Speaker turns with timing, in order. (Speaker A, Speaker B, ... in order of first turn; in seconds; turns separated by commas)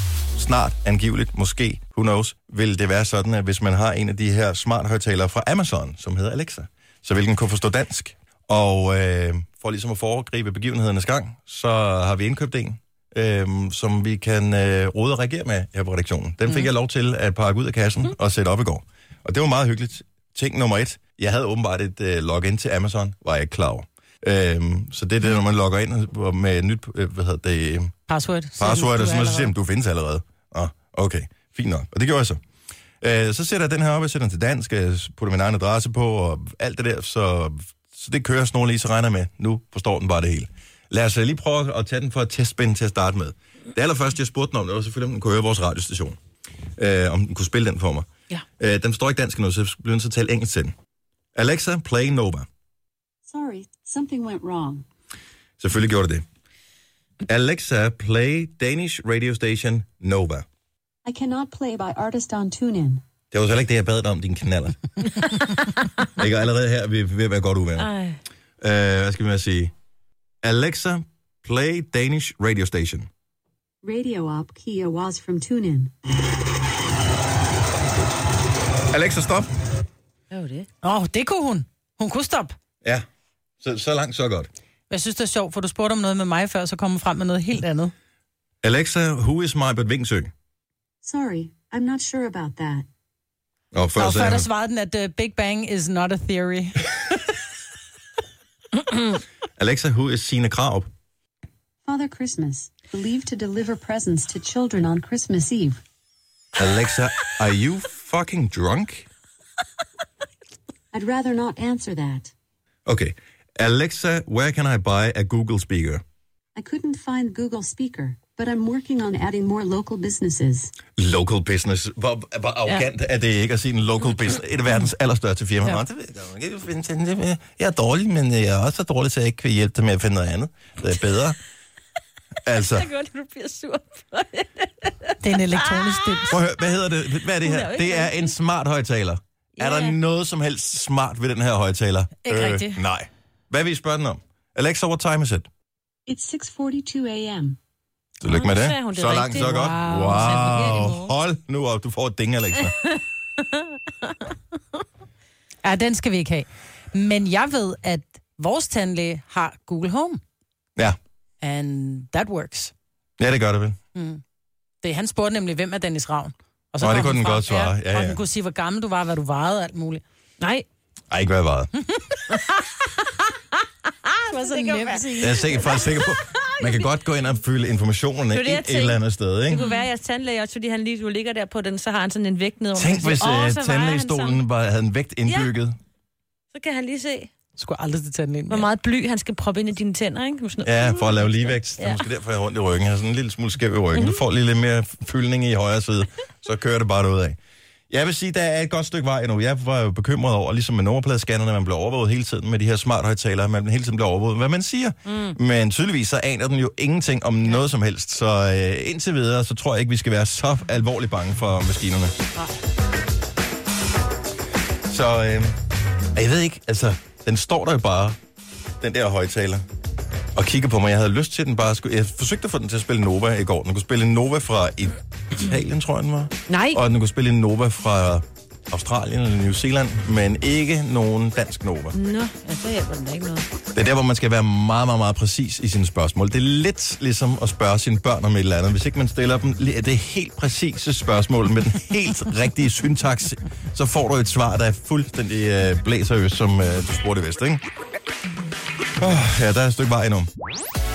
Speaker A: 0.4-27.9, Speaker B: 28.1-29.5, Speaker A: 28.6-32.4, Speaker A: 33.0-46.2, Speaker A: 46.8-48.1, Speaker A: 48.6-50.7, Speaker A: 51.4-52.5, Speaker C: 53.3-54.9, Speaker A: 55.6-56.2, Speaker A: 57.3-60.5, Speaker C: 61.0-63.0, Speaker A: 63.3-64.8, Speaker A: 66.2-67.9, Speaker D: 67.8-68.2, Speaker A: 68.6-69.7, Speaker A: 70.4-73.1, Speaker C: 73.8-75.9, Speaker A: 78.9-79.5, Speaker D: 80.3-80.7, Speaker B: 80.8-82.5, Speaker A: 83.6-84.5, Speaker B: 84.9-87.9, Speaker A: 88.6-90.3, Speaker C: 91.0-92.9, Speaker A: 93.7-94.5, Speaker B: 94.0-96.9, Speaker A: 99.6-100.9, Speaker C: 101.8-105.8, Speaker A: 106.6-109.1, Speaker C: 110.9-112.3, Speaker A: 112.9-116.0, Speaker C: 116.6-120.7, Speaker A: 121.0-131.4, Speaker A: 132.4-132.9, Speaker D: 132.6-136.4, Speaker B: 135.2-136.4, Speaker A: 136.3-145.5, Speaker D: 137.2-138.3, Speaker D: 139.6-140.0, Speaker B: 142.2-142.8, Speaker C: 146.1-147.6, Speaker A: 148.2-152.8, Speaker D: 148.2-151.1, Speaker B: 149.3-150.9, Speaker B: 155.6-160.2, Speaker B: 161.4-162.7, Speaker A: 163.2-163.8, Speaker B: 163.9-164.2, Speaker B: 164.8-170.0, Speaker A: 166.8-168.2, Speaker D: 170.4-170.7, Speaker A: 171.1-171.7, Speaker D: 172.3-172.9, Speaker D: 174.1-176.9, Speaker B: 174.3-175.4, Speaker A: 175.2-179.6, Speaker D: 178.3-184.4, Speaker A: 182.8-185.8, Speaker D: 185.3-185.5, Speaker D: 186.5-187.3, Speaker B: 187.6-188.7, Speaker D: 188.5-192.0, Speaker A: 190.7-197.4, Speaker D: 193.9-194.2, Speaker A: 197.9-212.2, Speaker D: 205.1-205.3, Speaker A: 214.9-215.6, Speaker A: 216.2-218.2, Speaker A: 218.8-219.6, Speaker A: 220.3-231.9, Speaker D: 226.5-226.8, Speaker D: 231.9-233.5, Speaker A: 233.7-247.6, Speaker A: 249.0-250.3